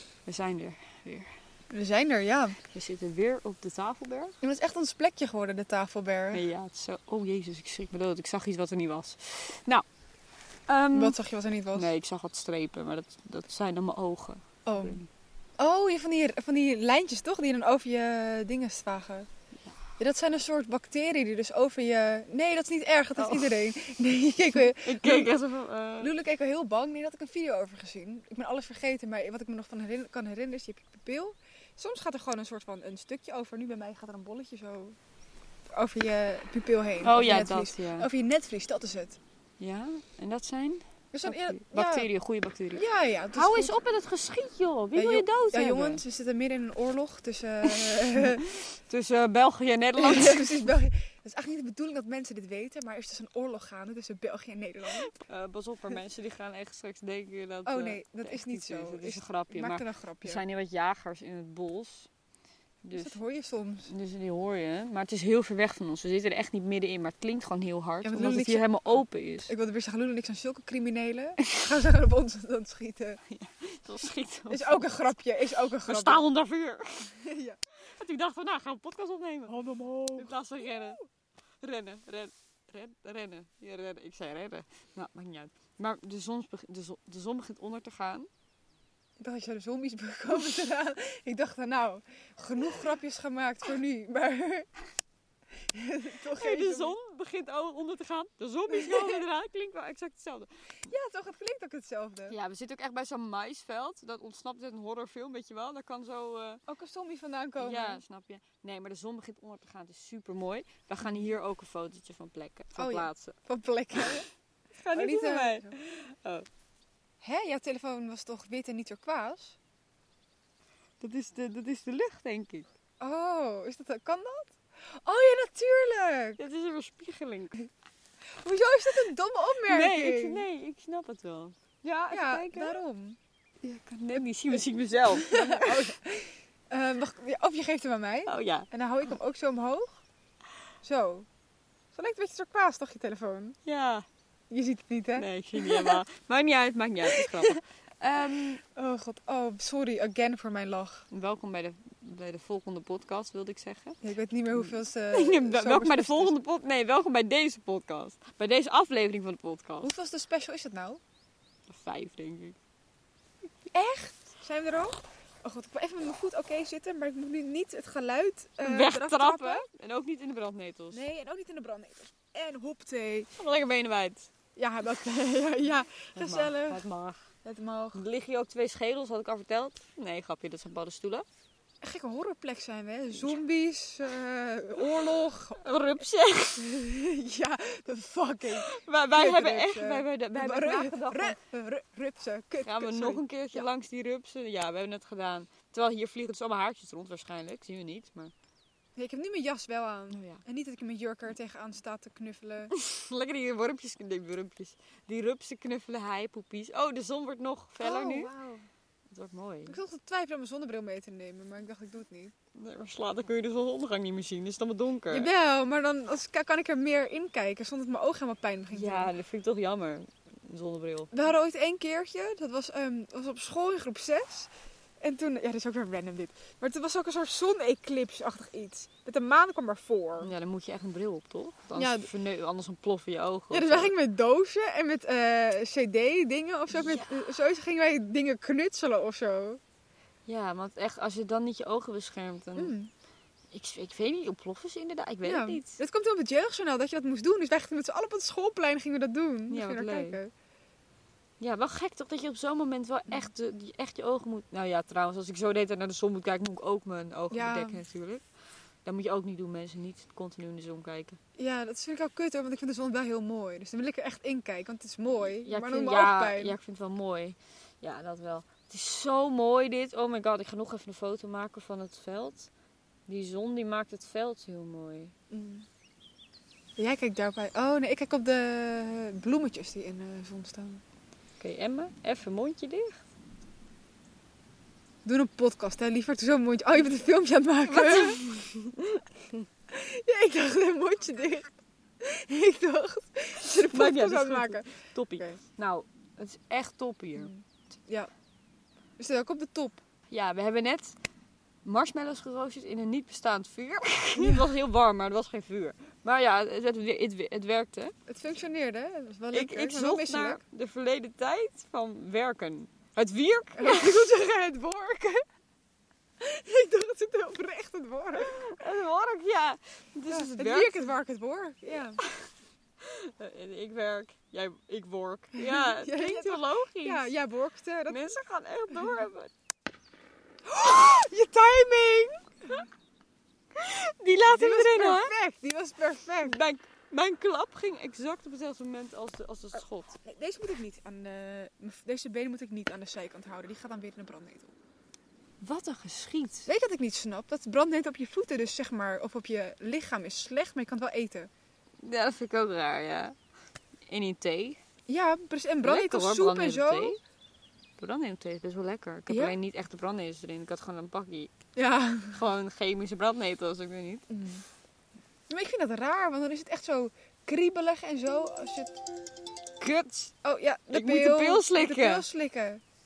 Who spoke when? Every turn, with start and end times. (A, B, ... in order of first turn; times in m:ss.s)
0:00.3-0:01.3 A
0:01.7-0:02.6 B
0:02.7-0:04.3 A
0:04.4-0:06.4 B
0:06.3-0:09.8 A
0:10.7-0:11.2 A
0:10.9-0:11.9 B
0:11.7-0:15.1 A
0:14.7-0:15.0 B
0:15.6-0:19.3 B
0:20.0-0:25.3 B
0:23.2-0:23.6 A
0:24.5-0:26.1 A
0:26.0-0:35.0 B
0:35.7-0:39.2 B
0:37.0-0:38.1 A
0:39.6-0:42.8 A
0:41.1-0:42.1 B
0:42.7-0:43.8 B
0:43.4-0:46.0 A
0:44.9-0:48.6 B
0:47.6-0:50.7 A
0:50.0-0:55.1 B
0:55.1-1:02.1 A
0:57.6-1:00.4 B
1:02.8-1:03.2 A
1:03.0-1:03.9 B
1:03.9-1:09.5 A
1:08.0-1:13.2 B
1:13.3-1:14.9 A
1:14.5-1:16.3 B
1:15.8-1:17.1 A
1:17.1-1:17.6 B
1:17.9-1:19.6 A
1:19.5-1:21.0 B
1:20.2-1:21.0 A
1:21.6-1:28.3 A
1:29.2-1:34.7 B
1:35.7-1:37.0 B
1:36.3-1:40.5 A
1:38.7-1:39.2 B
1:40.9-1:42.4 B
1:42.3-1:46.6 A
1:46.7-1:48.0 B
1:47.6-1:53.4 A
1:51.0-1:51.4 B
1:52.8-1:54.3 B
1:54.8-1:55.8 B
1:54.9-1:56.5 A
1:57.2-1:59.6 B
2:01.0-2:02.7 A
2:03.0-2:06.4 B
2:06.4-2:07.7 A
2:08.4-2:10.4 B
2:09.7-2:12.8 A
2:12.1-2:13.2 B
2:13.6-2:16.0 A
2:14.1-2:14.6 B
2:15.2-2:20.0 B
2:18.3-2:18.7 A
2:20.8-2:21.3 B
2:21.9-2:23.6 B
2:23.6-2:24.1 A
2:24.5-2:26.0 B
2:25.2-2:28.6 A
2:27.1-2:27.6 B
2:28.6-2:31.1 B
2:31.1-2:34.0 A
2:34.0-2:36.3 B
2:34.6-2:39.9 A
2:39.8-2:41.0 B
2:41.7-2:42.6 A
2:43.7-2:49.6 B
2:48.6-2:51.1 A
2:50.9-2:53.3 B
2:53.4-2:54.3 A
2:54.6-2:56.8 B
2:56.2-2:57.2 A
2:57.4-2:58.0 B
2:58.0-3:01.3 A
3:01.8-3:05.6 B
3:05.6-3:06.7 A
3:06.6-3:13.7 B
3:08.5-3:11.4 A
3:12.6-3:18.3 A
3:19.0-3:22.7 B
3:20.1-3:20.4 A
3:22.7-3:28.3 A
3:27.8-3:28.7 B
3:29.1-3:29.8 A
3:29.7-3:32.3 B
3:32.6-3:35.3 A
3:35.1-3:39.1 B
3:38.7-3:41.1 A
3:41.1-3:44.5 B
3:45.0-3:50.3 B
3:50.2-3:53.9 A
3:51.8-3:52.1 B
3:53.5-3:59.6 B
3:56.7-3:57.2 A
4:00.3-4:02.8 A
4:02.6-4:02.9 B
4:03.5-4:05.8 A
4:05.2-4:10.3 B
4:09.5-4:10.2 A
4:11.4-4:18.2 A
4:17.3-4:17.8 B
4:18.8-4:21.2 A
4:21.4-4:26.6 B
4:25.2-4:32.5 A
4:33.1-4:35.1 A
4:35.3-4:35.7 B
4:36.8-4:40.8 B
4:41.4-4:43.0 A
4:45.0-4:48.2 B
4:47.7-4:49.4 A
4:49.7-4:55.4 B
4:53.5-4:57.3 A
4:57.2-4:58.1 B
4:59.0-4:59.8 B
5:00.1-5:01.0 A
5:01.6-5:07.9 A
5:04.2-5:04.5 B
5:08.1-5:10.4 B
5:09.3-5:14.1 A
5:13.6-5:15.2 B
5:16.2-5:18.4 B
5:18.2-5:20.9 A
5:20.1-5:22.0 B
5:22.0-5:22.3 A
5:22.8-5:27.1 A
5:25.4-5:28.2 B
5:27.9-5:29.3 A
5:30.5-5:32.6 B
5:33.5-5:35.1 A
5:34.3-5:36.4 B
5:36.2-5:40.0 A
5:39.6-5:44.5 B
5:45.4-5:46.5 A
5:46.5-5:51.3 B
5:51.8-5:53.1 A
5:53.9-5:54.6 A
5:54.9-5:57.0 B
5:55.6-5:57.0 A
5:57.8-6:01.3 A
5:59.1-5:59.4 B
6:01.6-6:02.2 B
6:02.1-6:04.0 A
6:04.1-6:04.4 B
6:05.3-6:08.8 B
6:09.6-6:10.1 A
6:10.2-6:12.6 B
6:10.7-6:12.0 A